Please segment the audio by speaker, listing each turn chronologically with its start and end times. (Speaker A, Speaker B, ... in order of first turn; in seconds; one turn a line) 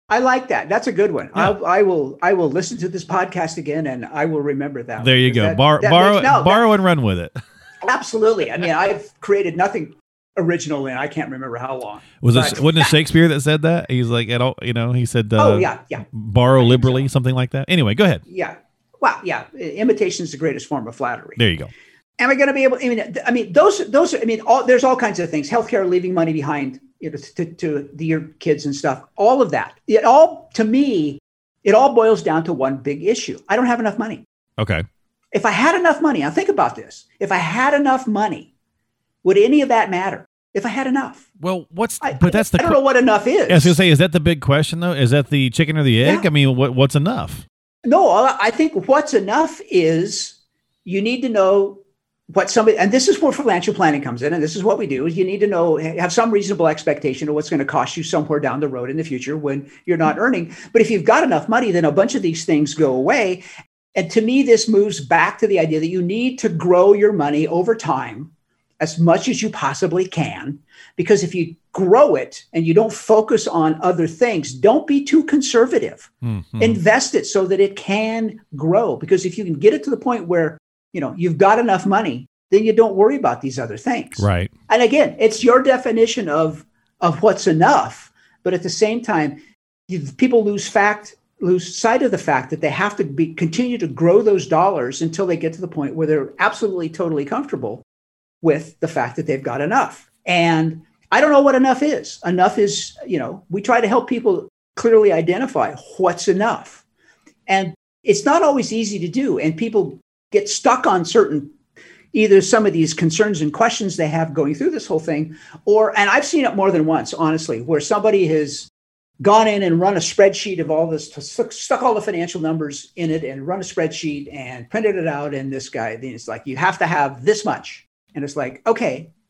Speaker A: 0.1-6.7
Speaker B: 5.0-7.3
Speaker A: 7.8-13.0
Speaker B: 12.2-18.2
Speaker A: 15.4-17.1
Speaker A: 18.3-21.4
Speaker B: 21.4-21.7
Speaker A: 22.2-34.2
Speaker B: 34.6-34.8
Speaker A: 35.3-38.5
Speaker A: 39.2-41.2
Speaker B: 41.4-42.8
Speaker A: 42.0-43.8
Speaker B: 43.5-47.4
Speaker A: 46.0-46.3
Speaker A: 47.8-51.8
Speaker A: 52.3-63.4
Speaker A: 63.9-97.8
Speaker B: 76.2-76.8
Speaker B: 84.2-84.5
Speaker A: 98.4-106.8
Speaker A: 107.5-111.5
Speaker A: 112.1-118.7
Speaker A: 119.2-129.1